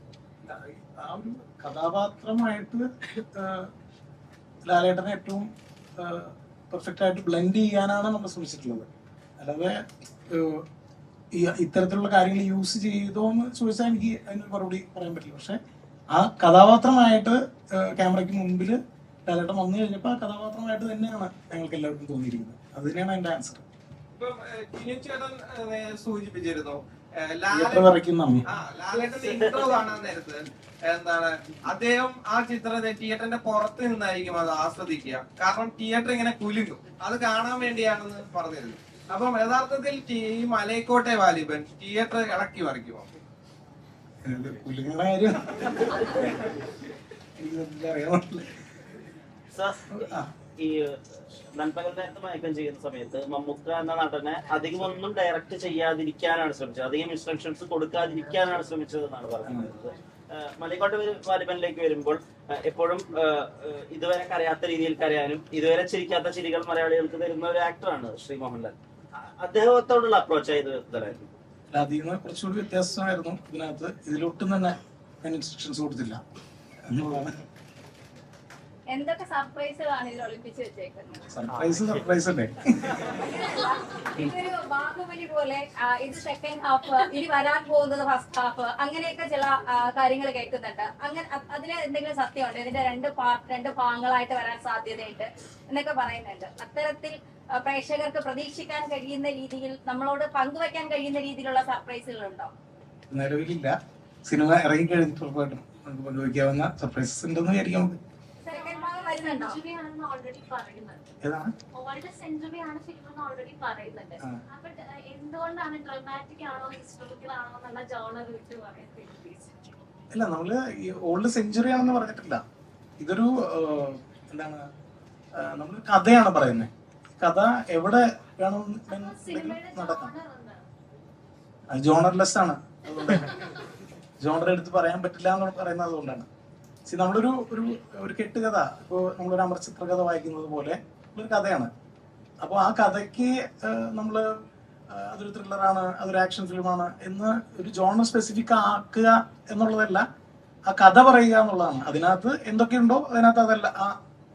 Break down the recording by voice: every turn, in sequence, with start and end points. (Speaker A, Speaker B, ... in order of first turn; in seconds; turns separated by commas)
Speaker A: 0.4-3.7, Speaker A: 4.7-5.5, Speaker A: 6.0-8.9, Speaker A: 9.4-9.8, Speaker A: 10.3-10.6, Speaker A: 11.3-15.6, Speaker A: 16.1-23.6, Speaker B: 24.2-27.9, Speaker A: 27.5-28.4, Speaker B: 28.5-43.2, Speaker C: 29.1-29.8, Speaker A: 44.2-46.7, Speaker A: 47.4-48.6, Speaker C: 49.5-71.3, Speaker A: 49.9-50.3, Speaker A: 59.5-59.7, Speaker A: 71.7-76.2, Speaker A: 76.9-77.3, Speaker D: 78.9-81.2, Speaker A: 81.3-83.1, Speaker C: 81.5-82.0, Speaker D: 83.1-102.5, Speaker A: 103.1-103.7, Speaker A: 104.2-108.0, Speaker D: 108.5-109.6, Speaker E: 108.5-111.0, Speaker A: 111.2-111.5, Speaker E: 111.8-119.6, Speaker A: 120.1-122.4, Speaker A: 123.0-124.6, Speaker A: 125.4-130.1, Speaker E: 128.9-130.6, Speaker A: 131.7-133.3, Speaker A: 134.2-136.3, Speaker A: 136.9-141.7, Speaker A: 142.4-144.3, Speaker A: 144.9-150.1, Speaker A: 150.7-153.9